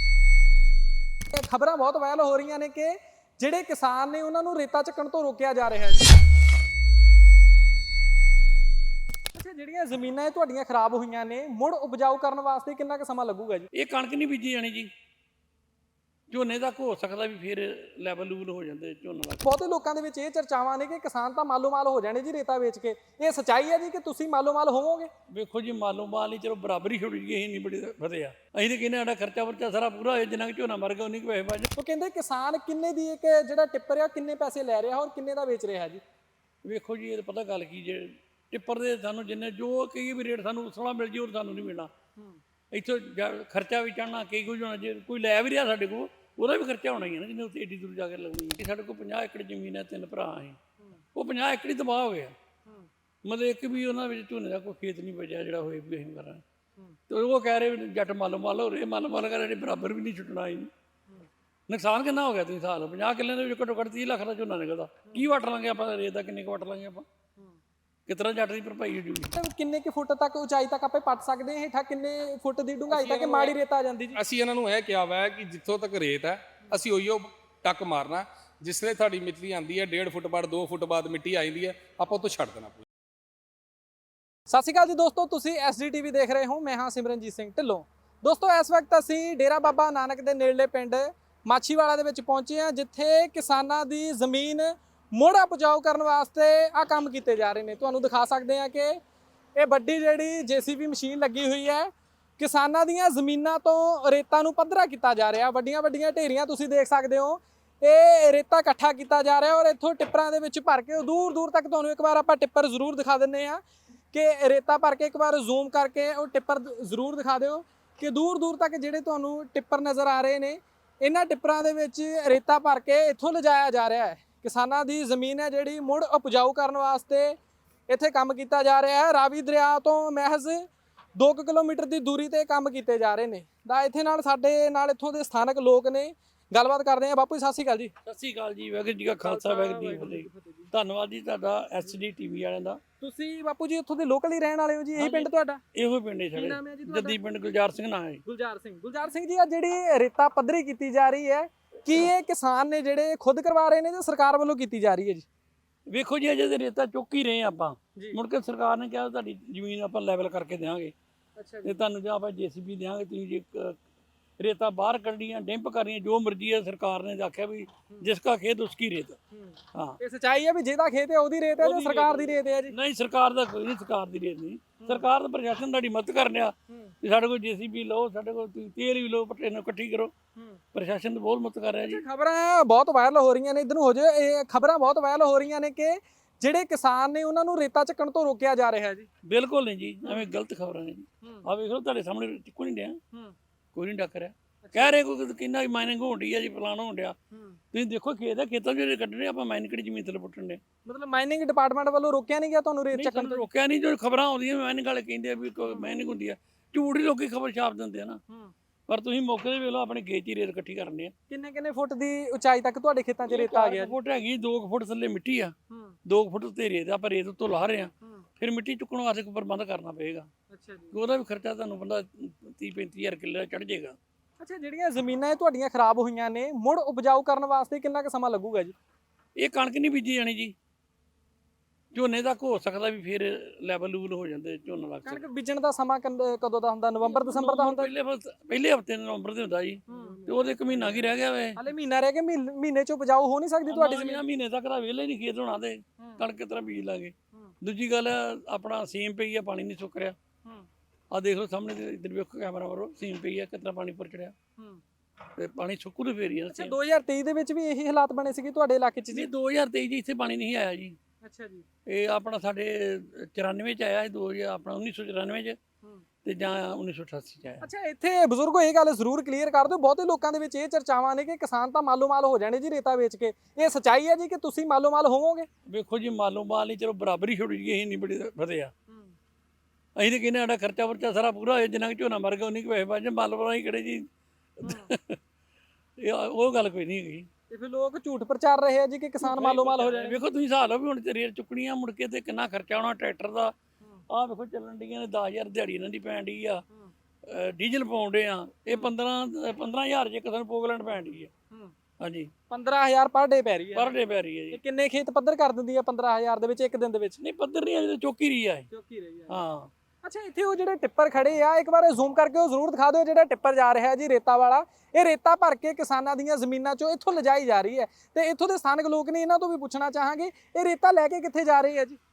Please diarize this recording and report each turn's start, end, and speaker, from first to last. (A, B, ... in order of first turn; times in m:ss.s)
0:01.3-0:06.1 A
0:09.3-0:13.7 A
0:13.7-0:14.9 B
0:16.3-0:19.4 B
0:19.4-0:25.1 A
0:25.3-0:31.7 B
0:31.8-0:36.0 A
0:36.6-0:41.9 B
0:42.7-0:50.6 B
0:51.1-0:52.3 B
0:53.2-0:56.4 B
0:57.1-1:00.7 B
1:01.7-1:07.0 B
1:08.1-1:09.3 B
1:09.3-1:14.2 A
1:12.9-1:13.6 C
1:14.1-1:22.8 C
1:24.5-1:39.0 A
1:39.6-2:07.4 A
2:07.9-2:17.9 A
2:18.0-2:22.8 B
2:19.2-2:20.7 A
2:23.0-2:25.6 A
2:25.0-2:28.2 B
2:26.3-2:27.2 A
2:28.2-2:35.2 A
2:35.9-2:40.9 B
2:41.4-2:41.8 A
2:41.6-2:43.8 B
2:44.4-2:49.2 B
2:49.3-2:52.7 A
2:49.7-2:50.0 B
2:51.6-3:00.1 B
2:54.8-2:55.0 A
2:56.7-2:56.9 A
3:00.7-3:02.0 B
3:01.8-3:09.1 A
3:09.2-3:13.0 B
3:13.7-3:17.2 B
3:14.6-3:15.0 A
3:17.3-3:17.6 A
3:17.7-3:20.6 B
3:20.8-3:23.4 A
3:22.9-3:28.2 B
3:28.9-3:31.1 B
3:31.3-3:33.9 A
3:33.3-3:35.5 B
3:35.7-3:36.0 A
3:36.0-3:40.3 B
3:40.5-3:40.9 A
3:40.9-3:43.9 B
3:44.4-3:48.7 A
3:49.4-3:50.5 B
3:51.9-3:55.2 B
3:55.0-3:57.9 A
3:57.0-4:01.6 B
3:59.9-4:04.2 A
4:03.6-4:10.1 B
4:11.1-4:14.3 B
4:15.4-4:16.8 B
4:16.5-4:19.3 A
4:19.1-4:21.0 B
4:21.2-4:21.6 A
4:21.9-4:25.6 B
4:26.2-4:27.6 B
4:27.6-4:35.5 A
4:35.7-4:38.7 B
4:38.9-4:39.1 A
4:40.0-4:44.0 B
4:44.6-4:45.2 B
4:44.6-4:44.9 A
4:46.0-4:47.3 B
4:47.5-4:50.2 A
4:49.2-4:53.5 B
4:54.1-4:56.6 B
4:57.2-5:01.3 B
5:02.0-5:02.3 B
5:02.5-5:03.9 A
5:03.7-5:04.6 B
5:04.5-5:07.2 A
5:07.2-5:08.7 B
5:08.7-5:09.4 A
5:09.3-5:09.7 B
5:10.0-5:22.0 A